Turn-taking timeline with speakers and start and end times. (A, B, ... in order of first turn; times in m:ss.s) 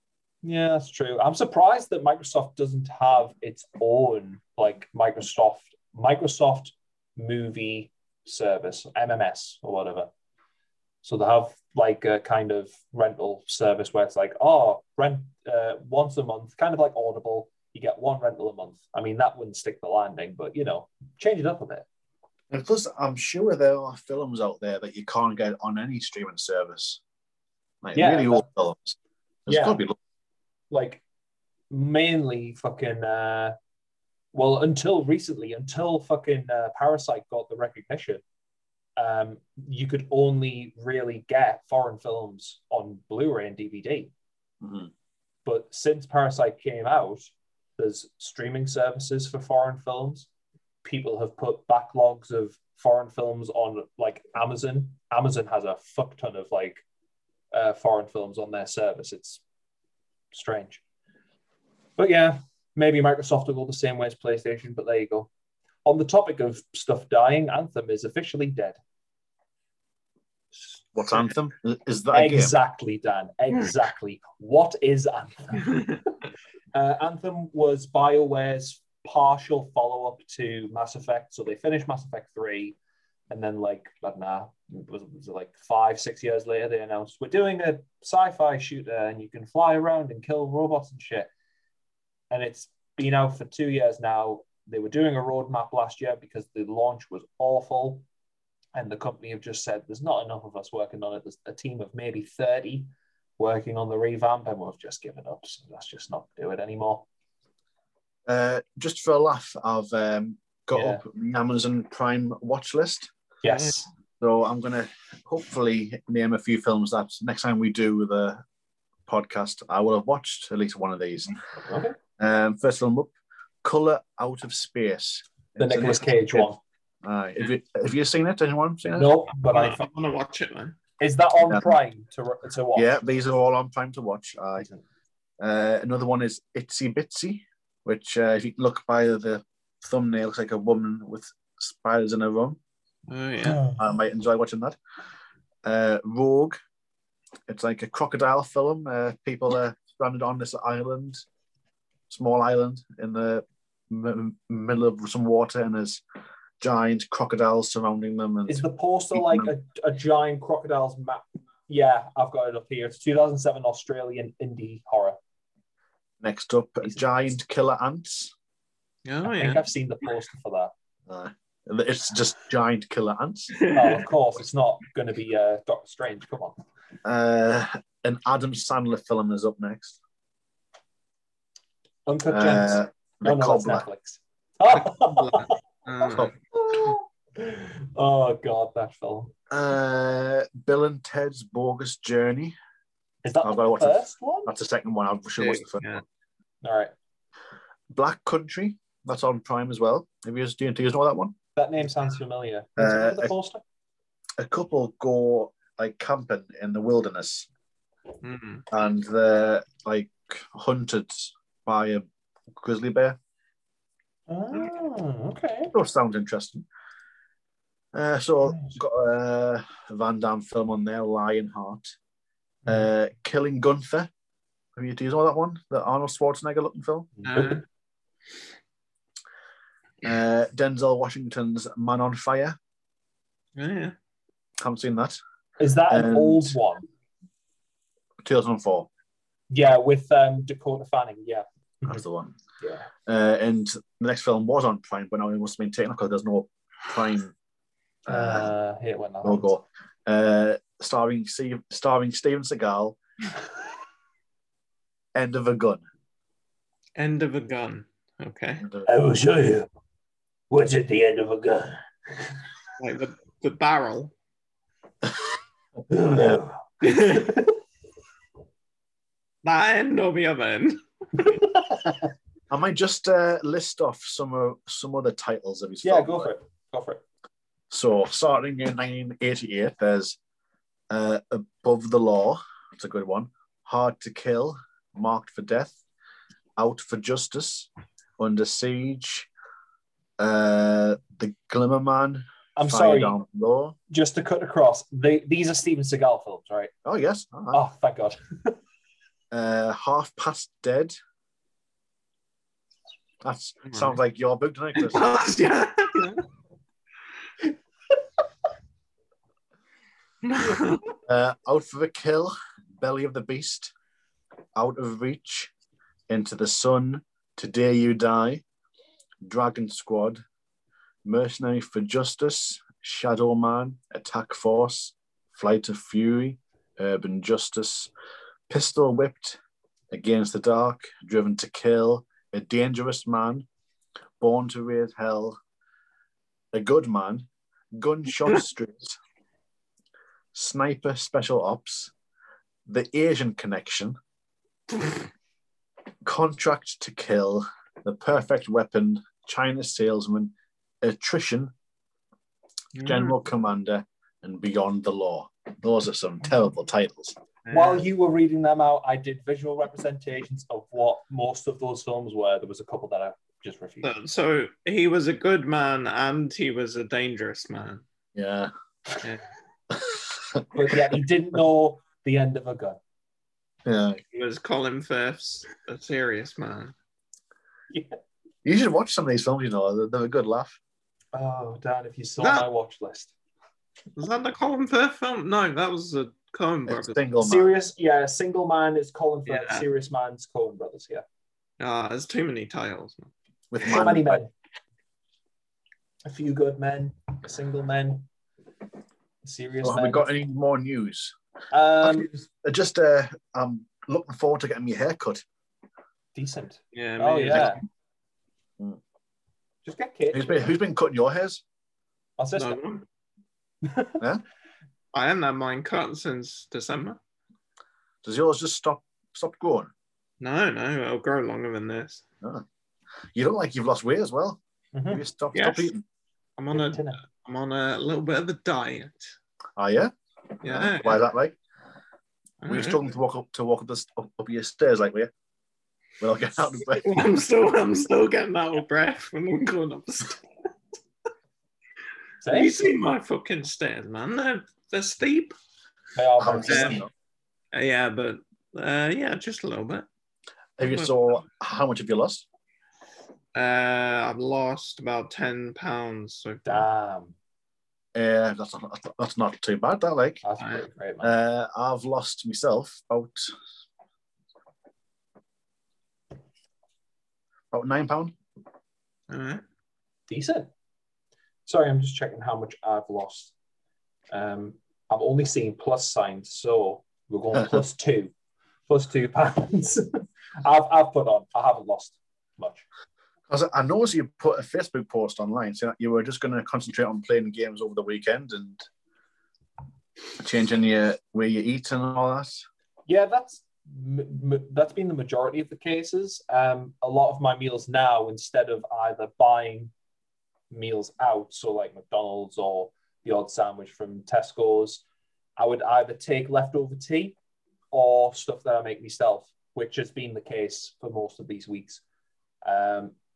0:00.4-0:10.1 A
0:11.0-0:21.8 A
0:22.5-0:27.0 B
0:27.8-0:30.0 B
0:27.9-0:28.4 A
0:29.5-0:29.8 A
0:30.7-0:31.0 A
0:31.7-0:33.6 A
0:34.3-0:38.2 A
0:39.0-0:44.1 A
0:44.6-0:44.9 B
0:45.4-0:50.3 A
0:50.8-0:56.8 A
0:57.5-0:59.4 A
1:00.3-1:00.8 A
1:02.0-1:05.3 A
1:05.8-1:08.8 A
1:10.9-1:12.5 B
1:12.1-1:16.0 A
1:16.7-1:22.8 A
1:23.3-1:31.3 A
1:32.3-1:38.0 A
1:38.7-1:47.0 A
1:48.3-1:53.1 B
1:50.7-1:51.0 A
1:53.4-1:53.9 A
1:53.5-1:53.7 C
1:54.2-1:58.4 B
1:59.1-2:01.3 B
2:01.6-2:02.0 A
2:02.2-2:03.1 B
2:03.6-2:06.5 B
2:05.6-2:06.6 A
2:07.0-2:09.1 B
2:08.9-2:09.8 A
2:09.4-2:10.8 C
2:11.0-2:13.0 A
2:12.7-2:14.7 B
2:15.4-2:22.6 B
2:23.1-2:23.7 C
2:23.7-2:24.8 B
2:25.6-2:26.6 B
2:27.5-2:31.2 B
2:32.1-2:36.0 B
2:36.6-2:39.5 B
2:38.5-2:45.2 A
2:46.2-2:48.3 B
2:49.0-2:49.6 C
2:49.2-2:50.7 A
2:51.1-2:53.5 B
2:53.5-2:54.0 C
2:53.7-2:56.6 A
2:57.0-3:00.0 B
3:02.0-3:05.6 A
3:02.3-3:03.8 B
3:04.7-3:06.3 C
3:06.5-3:09.3 A
3:09.5-3:12.5 B
3:13.2-3:14.5 A
3:13.4-3:16.0 B
3:15.4-3:16.0 C
3:16.6-3:16.9 A
3:17.9-3:21.3 B
3:21.6-3:23.6 A
3:22.8-3:23.3 B
3:24.4-3:27.5 B
3:28.2-3:28.6 C
3:28.7-3:33.2 B
3:34.3-3:35.7 A
3:35.7-3:36.6 B
3:37.9-3:41.9 B
3:38.5-3:38.7 A
3:42.6-3:44.1 B
3:44.8-3:47.2 B
3:47.2-3:47.6 A
3:47.2-3:47.6 C
3:50.0-3:52.6 B
3:53.6-3:53.9 C
3:54.6-3:55.2 B
3:55.6-3:56.9 A
3:55.9-3:56.6 B
3:58.2-3:58.9 B
3:59.5-4:02.0 A
4:01.8-4:02.3 B
4:02.6-4:02.9 A
4:03.0-4:07.3 B
4:08.0-4:08.5 B
4:08.1-4:09.5 A
4:09.2-4:13.0 B
4:15.1-4:15.8 B
4:17.0-4:18.6 C
4:18.8-4:19.7 A
4:20.5-4:21.8 A
4:22.8-4:24.1 C
4:25.9-4:27.5 A
4:26.1-4:26.4 B
4:26.8-4:27.4 C
4:29.4-4:31.3 C
4:32.5-4:36.3 B
4:35.8-4:37.0 A
4:37.7-4:40.2 B
4:40.9-4:45.8 B
4:46.6-4:49.3 B
4:50.2-4:53.7 B
4:52.6-4:53.2 A
4:53.9-4:56.7 A
4:56.8-4:57.6 B
4:57.5-4:58.6 A
4:59.3-5:00.9 B
5:03.2-5:05.0 B
5:03.7-5:03.9 C
5:04.8-5:06.2 C
5:10.2-5:10.8 C
5:11.0-5:13.7 B
5:14.6-5:15.5 B
5:16.1-5:18.4 B
5:19.2-5:20.2 B
5:21.0-5:27.9 B
5:28.5-5:29.4 B
5:29.9-5:33.4 B
5:34.2-5:35.4 B
5:36.5-5:39.0 B
5:40.3-5:41.9 B
5:42.7-5:44.0 B
5:46.0-5:51.5 B
5:52.8-5:53.1 C
5:52.8-5:57.2 B
5:57.4-5:57.8 C
5:57.5-6:03.9 A
6:03.8-6:07.8 C
6:08.1-6:08.5 B
6:09.7-6:10.4 B
6:10.5-6:12.8 A
6:13.6-6:14.0 B
6:14.1-6:16.7 C
6:18.4-6:20.6 B
6:21.1-6:23.1 A
6:22.2-6:22.5 C
6:24.0-6:27.0 C
6:26.7-6:27.5 B
6:27.2-6:31.0 A
6:29.3-6:29.6 C
6:31.6-6:33.1 C
6:33.5-6:34.2 B
6:33.6-6:34.3 A
6:36.0-6:38.1 A
6:39.2-6:40.1 A
6:39.6-6:41.1 B
6:41.5-6:42.1 A
6:41.8-6:45.2 B
6:46.1-6:47.6 A
6:46.7-6:47.6 C
6:49.6-6:50.5 A
6:50.1-6:51.4 B
6:52.2-6:52.6 A
6:52.4-6:52.8 C
6:53.6-6:54.0 A
6:54.9-6:57.0 C
6:58.0-6:59.7 B
7:00.2-7:02.0 C
7:03.1-7:05.8 B
7:04.7-7:05.0 A
7:05.3-7:05.7 C
7:06.4-7:09.1 C
7:06.5-7:07.0 A
7:09.6-7:11.4 B
7:10.4-7:11.0 C
7:12.4-7:12.8 C
7:12.5-7:15.1 B
7:16.0-7:17.0 B
7:16.7-7:20.2 C
7:22.2-7:22.7 A
7:22.3-7:25.3 C
7:26.0-7:26.8 A
7:26.2-7:26.9 B
7:26.5-7:26.8 C
7:27.5-7:29.9 C
7:30.6-7:32.2 B
7:30.6-7:30.9 C
7:33.3-7:36.6 C
7:36.4-7:37.1 A
7:37.9-7:40.2 B
7:40.2-7:41.1 A
7:41.0-7:43.3 B
7:47.5-7:48.2 B
7:49.1-7:49.4 C
7:50.1-7:50.5 A
7:51.4-7:53.3 A
7:54.1-7:58.1 A
7:58.7-8:02.6 A
8:03.3-8:08.6 B
8:10.2-8:12.4 B
8:12.9-8:19.7 A
8:20.5-8:24.8 A
8:25.4-8:27.2 A
8:27.7-8:31.8 A
8:32.4-8:32.9 A